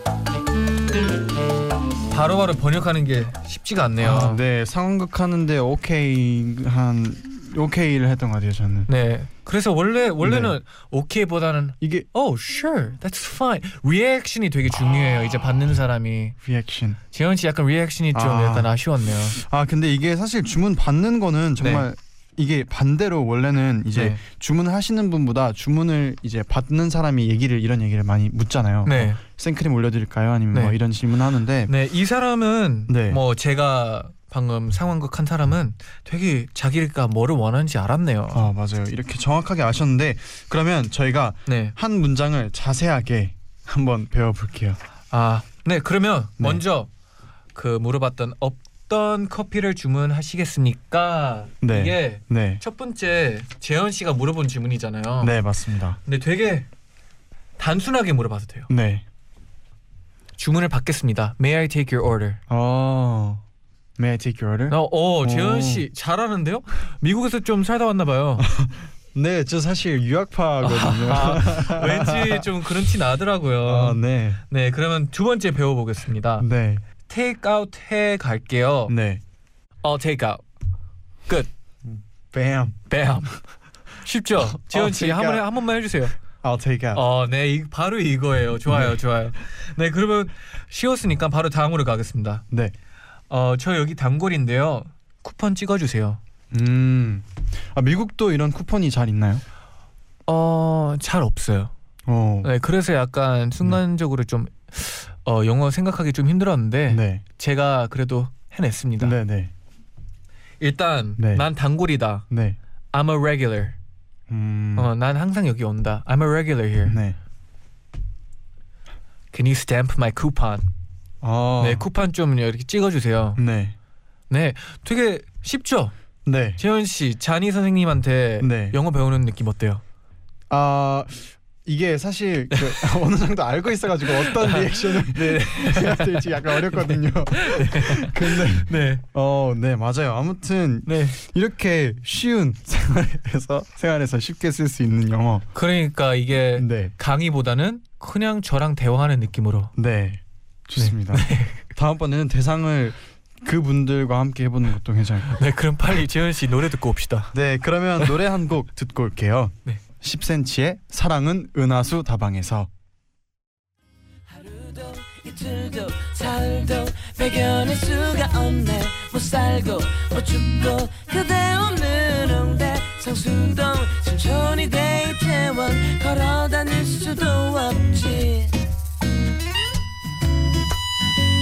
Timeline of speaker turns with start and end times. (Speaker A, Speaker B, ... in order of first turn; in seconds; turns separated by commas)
Speaker A: 2.1-4.4, Speaker B: 4.0-8.9, Speaker A: 8.9-16.4, Speaker B: 10.2-10.6, Speaker B: 11.8-12.1, Speaker B: 16.4-17.0, Speaker A: 17.1-19.4, Speaker B: 18.1-18.7, Speaker B: 19.4-31.7, Speaker A: 21.6-21.9, Speaker A: 23.9-24.2, Speaker A: 28.9-29.2, Speaker A: 31.7-38.5, Speaker B: 32.9-33.2, Speaker B: 38.3-44.8, Speaker A: 41.5-41.8, Speaker A: 45.1-46.9, Speaker A: 47.5-55.4, Speaker B: 51.6-52.6, Speaker B: 55.2-56.0, Speaker A: 56.0-56.7, Speaker A: 57.6-58.7, Speaker B: 58.7-59.0, Speaker A: 60.4-62.4, Speaker B: 62.5-63.4, Speaker B: 64.0-65.9, Speaker A: 64.7-68.5, Speaker B: 68.4-72.5, Speaker A: 70.6-76.5, Speaker B: 73.7-74.4, Speaker B: 76.4-76.8, Speaker A: 77.1-78.9, Speaker B: 78.9-79.2, Speaker A: 79.8-80.4, Speaker B: 81.8-82.8, Speaker A: 82.9-83.4, Speaker A: 84.0-86.2, Speaker B: 84.4-85.5, Speaker B: 86.2-87.0, Speaker A: 86.9-92.4, Speaker B: 88.7-89.0, Speaker A: 93.3-96.2, Speaker B: 96.5-99.4, Speaker A: 100.3-101.7, Speaker B: 102.1-102.5, Speaker A: 102.4-109.2, Speaker B: 106.9-107.2, Speaker B: 109.0-109.5, Speaker A: 110.6-112.3, Speaker B: 111.2-111.5, Speaker B: 112.3-112.6, Speaker A: 112.9-113.8, Speaker B: 114.3-114.9, Speaker A: 114.8-117.0, Speaker B: 116.9-117.2, Speaker A: 119.3-120.7, Speaker B: 121.2-121.9, Speaker A: 121.6-123.4, Speaker B: 123.4-123.8, Speaker A: 124.3-125.9, Speaker B: 126.2-126.6, Speaker A: 126.6-129.8, Speaker B: 128.4-128.8, Speaker B: 130.5-145.5, Speaker A: 132.5-132.8, Speaker A: 134.2-139.0, Speaker A: 140.9-141.2, Speaker A: 145.5-149.7, Speaker B: 146.6-146.9, Speaker B: 149.8-155.4, Speaker A: 150.8-151.6, Speaker A: 155.3-157.3, Speaker B: 157.3-162.7, Speaker C: 164.3-178.6